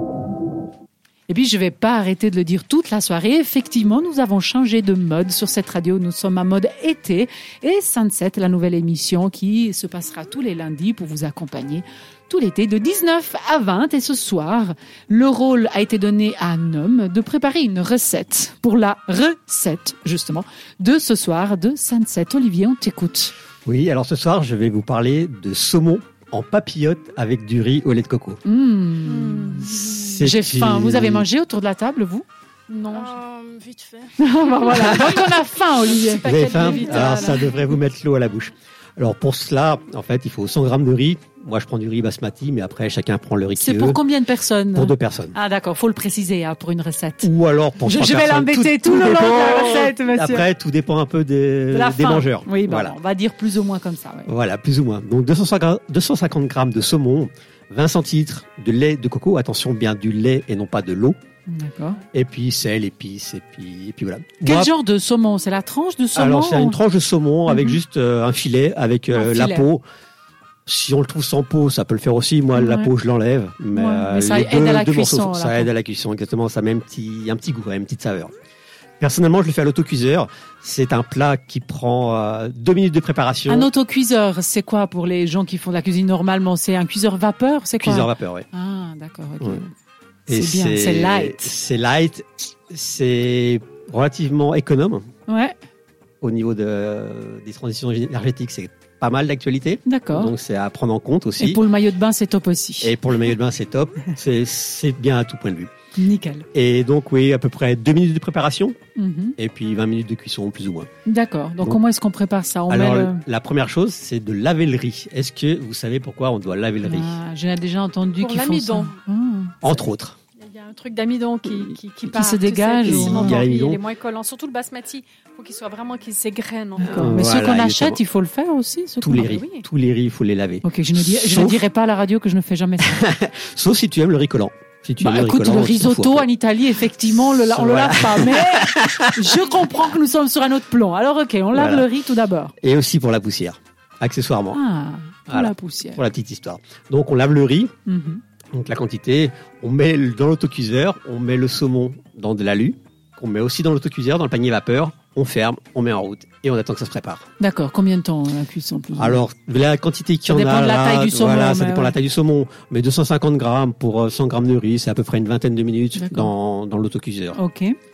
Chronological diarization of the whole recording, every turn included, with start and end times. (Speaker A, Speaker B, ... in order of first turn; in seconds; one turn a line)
Speaker A: 1.3-23.3
Speaker B: 23.6-28.4
Speaker A: 28.4-33.2
Speaker C: 29.1-29.7
Speaker B: 29.7-31.2
Speaker C: 32.7-35.3
Speaker A: 34.2-37.3
Speaker B: 34.8-35.1
Speaker C: 35.9-37.6
Speaker B: 36.2-44.0
Speaker A: 43.5-47.3
Speaker B: 44.7-45.3
Speaker B: 47.2-53.0
Speaker A: 47.8-50.5
Speaker A: 51.7-54.3
Speaker B: 54.3-61.1
Speaker A: 61.5-62.0
Speaker B: 62.1-64.7
Speaker A: 64.4-66.8
Speaker B: 66.1-69.8
Speaker A: 67.5-67.8
Speaker A: 69.1-69.7
Speaker B: 70.7-78.3
Speaker A: 72.5-72.9
Speaker A: 73.7-75.7
Speaker B: 79.0-83.7
Speaker A: 83.5-89.7
Speaker B: 87.8-88.5
Speaker B: 90.3-95.0
Speaker A: 90.3-91.5
Speaker A: 95.3-95.5
Speaker B: 96.2-101.6
Speaker A: 99.8-100.3
Speaker A: 101.4-103.0
Speaker B: 102.8-105.7
Speaker A: 106.0-106.5
Speaker B: 106.5-108.8
Speaker A: 109.0-109.4
Speaker B: 109.4-110.9
Speaker A: 111.0-113.2
Speaker B: 112.7-117.2
Speaker A: 116.8-119.5
Speaker C: 118.2-119.0
Speaker B: 119.6-120.2
Speaker C: 120.4-127.1
Speaker A: 121.7-123.4
Speaker B: 122.8-123.8
Speaker B: 126.8-128.0
Speaker A: 126.8-129.4
Speaker B: 129.0-131.6
Speaker C: 129.2-129.6
Speaker A: 130.6-133.0
Speaker B: 132.8-136.3
Speaker A: 135.0-142.5
Speaker B: 137.2-139.6
Speaker B: 141.5-141.9
Speaker B: 142.6-144.6
Speaker A: 144.5-146.0
Speaker B: 145.3-147.7
Speaker A: 147.8-148.2
Speaker B: 148.5-157.3
Speaker A: 157.4-159.2
Speaker B: 159.0-167.4
Speaker A: 160.3-161.9
Speaker A: 165.9-166.3
Speaker A: 167.3-167.7